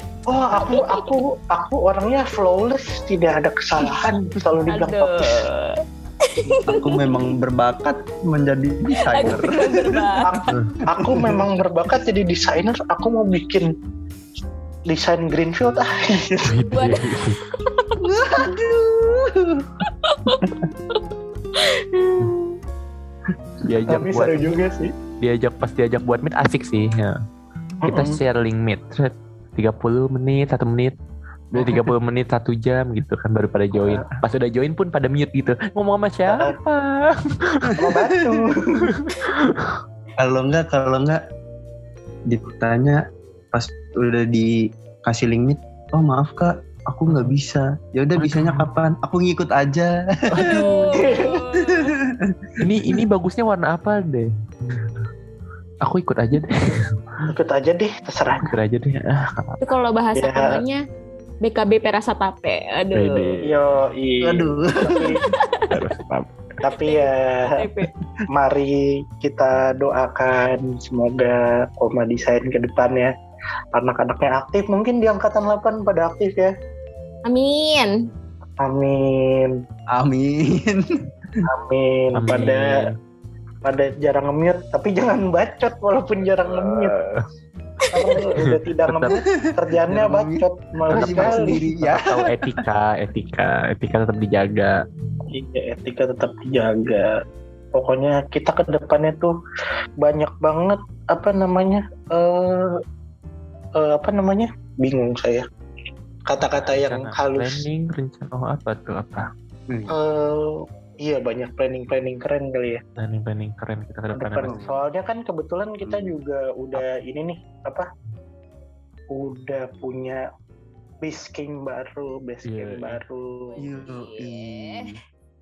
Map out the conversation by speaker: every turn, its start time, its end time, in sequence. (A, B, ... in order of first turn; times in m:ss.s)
0:00.3-0:05.5 A
0:00.6-0:01.1 B
0:04.7-0:07.2 B
0:06.6-0:10.1 C
0:09.0-0:10.3 B
0:09.2-0:09.5 A
0:10.2-0:13.7 A
0:10.9-0:11.5 C
0:14.9-0:16.5 A
0:16.4-0:17.4 D
0:16.7-0:18.0 B
0:18.0-0:19.7 C
0:19.8-0:21.0 B
0:21.5-0:22.6 B
0:23.6-0:24.5 D
0:23.9-0:24.9 A
0:25.2-0:27.2 D
0:27.8-0:28.2 A
0:27.8-0:31.0 D
0:31.5-0:37.8 D
0:33.8-0:34.2 A
0:37.7-0:38.4 C
0:37.8-0:38.9 A
0:38.9-0:39.8 D
0:40.2-0:41.2 C
0:42.3-0:50.6 C
0:47.1-0:47.3 D
0:48.2-0:48.7 D
0:50.3-0:50.8 D
0:50.4-0:51.9 B
0:50.9-0:51.3 A
0:51.5-0:52.3 C
0:52.6-0:55.1 D
0:55.8-0:57.0 D
0:57.3-0:58.5 A
0:58.4-0:59.6 D
0:59.6-1:00.8 B
1:00.2-1:00.6 A
1:01.4-1:03.3 B
1:02.9-1:03.6 D
1:03.4-1:05.2 A
1:04.2-1:05.1 C
1:04.9-1:05.8 B
1:05.7-1:06.3 D
1:06.6-1:07.7 A
1:06.8-1:07.9 B
1:08.3-1:13.1 A
1:13.7-1:16.5 A
1:17.3-1:17.9 B
1:18.6-1:19.6 A
1:19.9-1:21.4 C
1:21.4-1:22.9 A
1:22.2-1:22.9 D
1:23.6-1:26.9 A
1:26.5-1:27.2 D
1:27.9-1:31.6 A
1:28.0-1:28.2 B
1:28.4-1:29.2 D
1:29.7-1:32.6 C
1:30.9-1:34.7 D
1:35.3-1:37.1 A
1:37.7-1:39.3 A
1:40.0-1:42.7 A
1:43.8-1:45.4 A
1:46.3-1:47.6 A
1:46.6-1:49.2 D
1:49.7-1:50.0 C
1:49.9-1:52.8 A
1:53.0-1:54.6 D
1:54.1-1:57.9 A
1:54.4-1:54.8 C
1:55.8-1:56.1 C
1:59.1-2:00.2 A
2:01.0-2:03.6 A
2:02.4-2:03.0 D
2:03.5-2:04.9 B
2:03.6-2:05.0 C